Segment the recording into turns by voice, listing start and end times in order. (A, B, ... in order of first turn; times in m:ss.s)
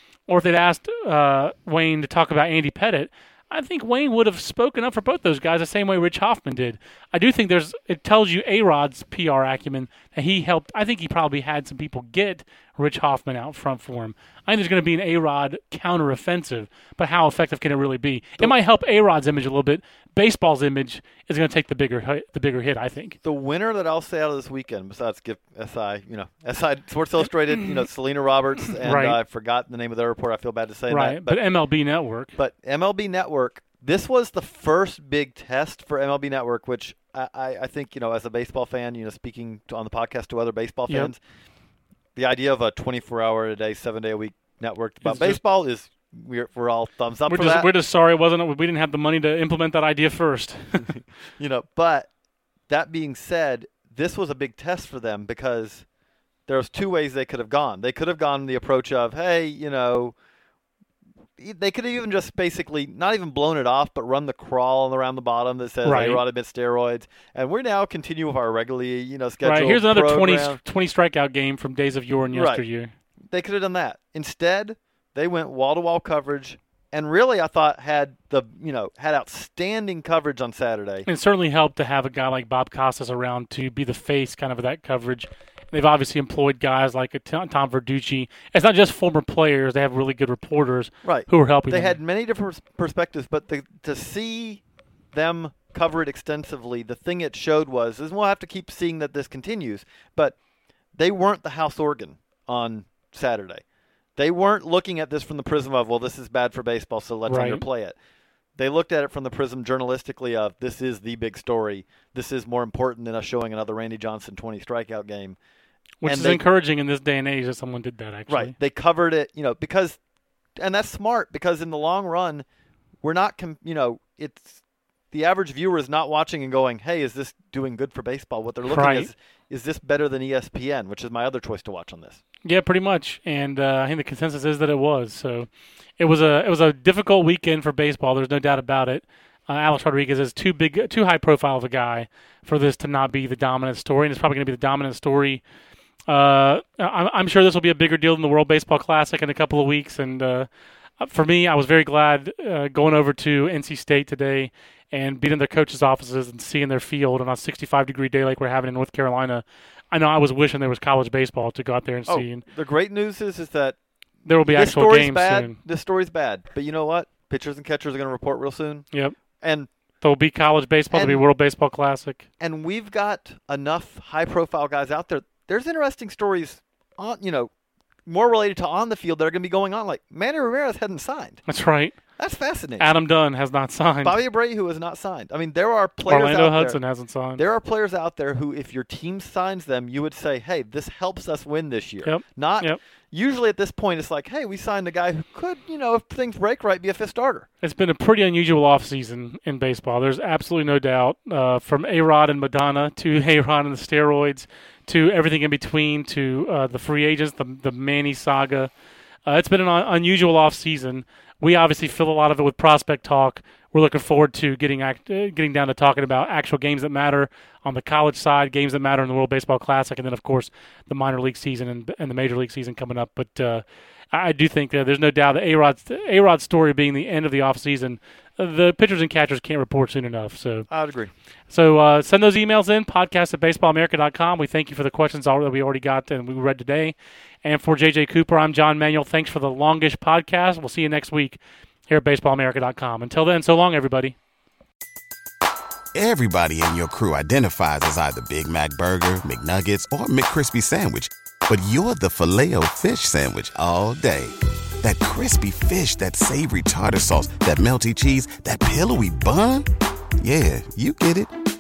0:00.3-0:23.2 A
0:23.2-0:31.4 B
0:28.8-0:29.2 A
0:30.9-0:32.4 A
0:32.4-0:41.2 B
0:42.2-0:47.7 B
0:45.0-0:45.4 A
0:47.3-0:50.9 A
0:50.9-0:52.1 B
0:52.7-0:55.8 B
0:56.5-1:00.2 B
1:01.4-1:10.6 B
1:05.8-1:06.2 A
1:09.4-1:12.9 A
1:12.3-1:12.6 B
1:13.3-1:21.1 B
1:21.1-1:32.0 A
1:31.0-1:34.6 B
1:35.1-1:40.4 B
1:41.0-1:43.6 B
1:44.2-1:48.0 B
1:47.3-1:47.6 A
1:48.6-1:55.4 B
1:56.0-1:58.5 A
1:56.0-1:56.4 B
1:58.3-2:00.0 B
2:00.6-2:02.4 B
2:03.0-2:04.6 B
2:05.1-2:12.2 B
2:08.7-2:09.1 A
2:12.4-2:25.4 A
2:26.1-2:30.5 A
2:31.0-2:42.4 A
2:42.1-2:43.8 B
2:44.2-2:45.6 A
2:44.5-2:48.9 B
2:48.9-2:49.2 A
2:49.4-2:49.7 B
2:50.0-2:52.3 A
2:50.9-2:51.2 B
2:52.4-2:57.5 B
2:58.1-3:01.4 B
3:01.5-3:02.0 A
3:02.2-3:02.9 B
3:02.8-3:04.2 A
3:04.0-3:06.8 B
3:06.1-3:07.4 A
3:07.4-3:17.5 B
3:12.0-3:12.8 A
3:17.6-3:28.7 A
3:29.3-3:50.7 A
3:50.7-3:51.1 B
3:51.5-4:04.2 A
4:06.0-4:19.7 C
4:20.2-4:21.3 C